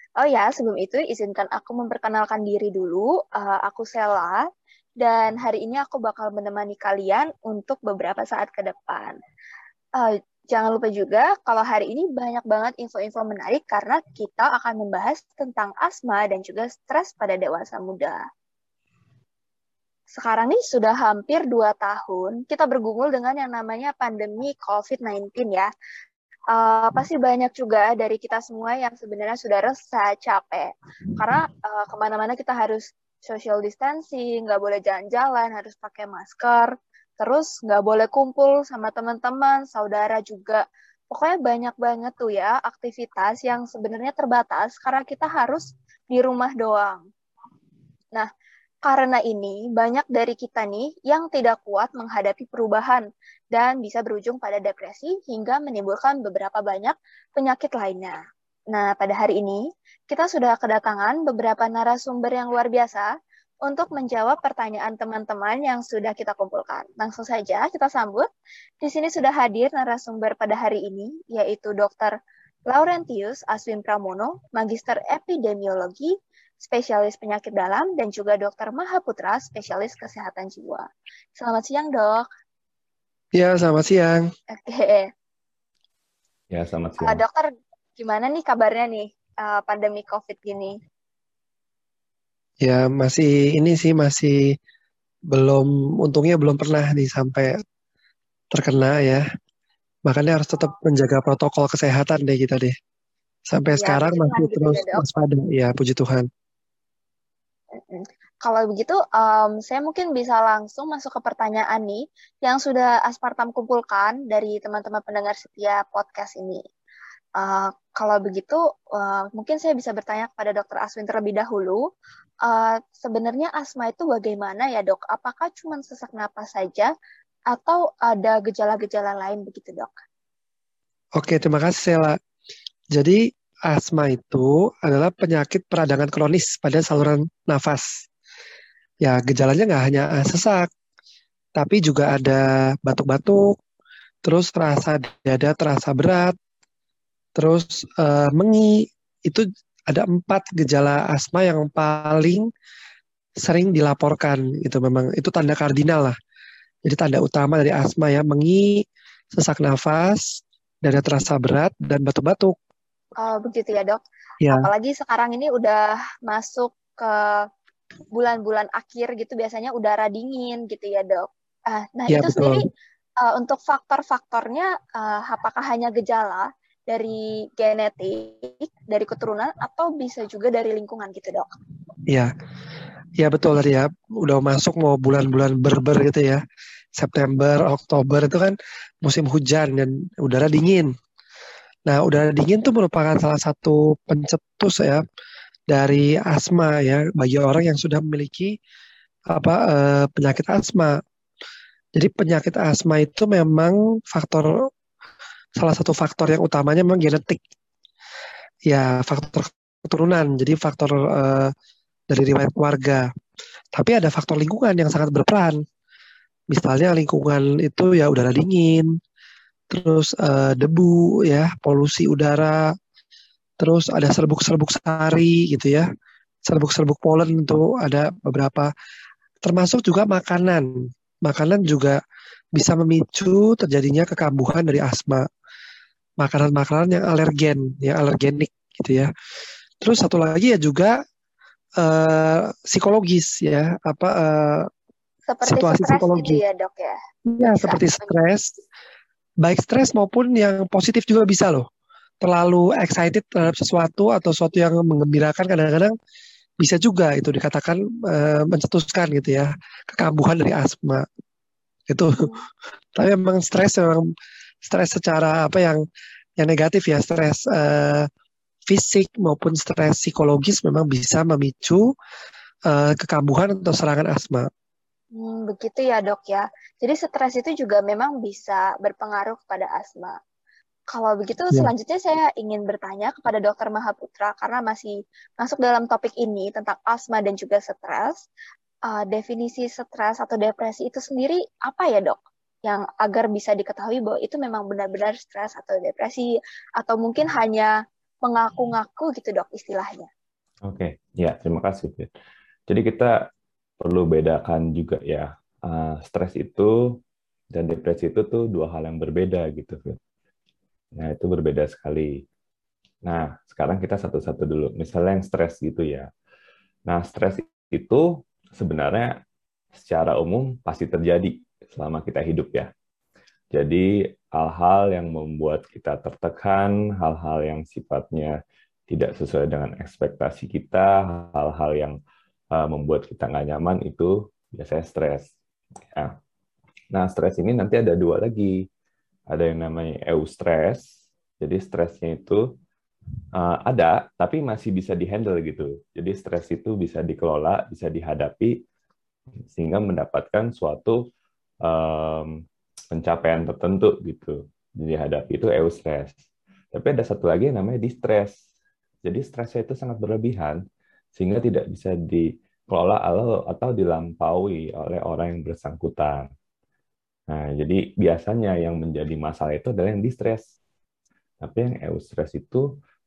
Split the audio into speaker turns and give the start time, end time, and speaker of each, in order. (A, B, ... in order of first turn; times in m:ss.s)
0:00.2-0:04.4 A
0:05.0-0:09.2 A
0:10.0-0:18.2 A
0:20.1-0:25.7 A
0:26.5-0:47.0 A
0:48.8-0:58.2 A
0:58.7-1:03.1 A
1:03.6-1:08.3 A
1:08.8-1:12.1 A
1:12.7-1:22.3 A
1:23.4-1:24.2 B
1:24.5-1:25.1 A
1:26.5-1:27.2 C
1:27.0-1:30.8 A
1:32.6-1:34.5 B
1:35.3-1:37.6 B
1:38.5-1:39.2 B
1:40.1-1:42.7 B
1:43.5-1:46.3 B
1:43.8-1:45.0 A
1:47.9-1:56.6 A
1:57.4-2:01.8 A
2:02.4-2:06.9 A
2:07.5-2:09.9 A
2:11.2-2:12.2 B
2:12.9-2:18.1 B
2:19.0-2:20.7 B
2:21.6-2:23.6 B
2:24.2-2:26.3 B
2:27.4-2:32.4 B
2:33.4-2:36.1 B
2:36.8-2:42.6 B
2:43.2-2:47.5 A
2:44.4-2:44.7 B
2:48.1-2:52.6 A
2:52.1-2:52.6 B
2:53.2-3:01.5 A
3:03.2-3:06.4 B
3:07.0-3:10.9 B
3:11.9-3:15.0 B
3:15.7-3:18.5 B
3:19.3-3:21.0 B
3:21.9-3:24.5 B
3:25.6-3:27.4 B
3:28.7-3:31.5 B
3:32.1-3:33.0 B
3:33.7-3:35.6 B
3:36.5-3:38.9 B
3:39.7-3:42.6 B
3:43.6-3:45.9 B
3:46.5-3:48.7 B
3:49.4-3:50.7 B
3:51.2-3:52.0 B
3:52.5-3:55.2 B
3:56.2-3:59.1 B
3:59.8-4:01.0 B
4:01.8-4:04.7 B
4:05.3-4:07.0 A
4:05.4-4:06.4 B
4:07.3-4:08.6 B
4:07.6-4:08.1 A
4:09.4-4:11.6 B
4:12.2-4:15.9 B
4:16.6-4:21.0 B
4:21.9-4:22.3 B
4:23.0-4:24.0 B
4:24.6-4:25.8 B
4:26.4-4:28.1 B
4:28.7-4:31.9 B
4:32.7-4:34.5 B
4:35.1-4:40.2 A
4:40.9-4:48.2 A
4:48.9-4:57.7 A
4:58.2-5:00.1 A
5:00.6-5:02.1 C
5:02.7-5:03.1 C
5:03.8-5:06.7 C
5:07.5-5:10.0 C
5:11.0-5:12.2 C
5:13.0-5:16.1 C
5:16.9-5:18.0 C
5:18.6-5:19.1 C
5:19.7-5:22.7 C
5:23.5-5:28.3 C
5:28.9-5:32.0 C
5:32.5-5:35.3 C
5:36.9-5:38.6 C
5:39.3-5:40.8 C
5:41.4-5:42.4 C
5:43.3-5:48.5 C
5:49.5-5:51.0 C
5:51.6-5:52.4 C
5:52.9-5:56.2 C
5:56.7-5:58.3 C
5:59.0-6:00.6 C
6:01.2-6:06.3 C
6:07.3-6:10.4 C
6:11.4-6:12.6 C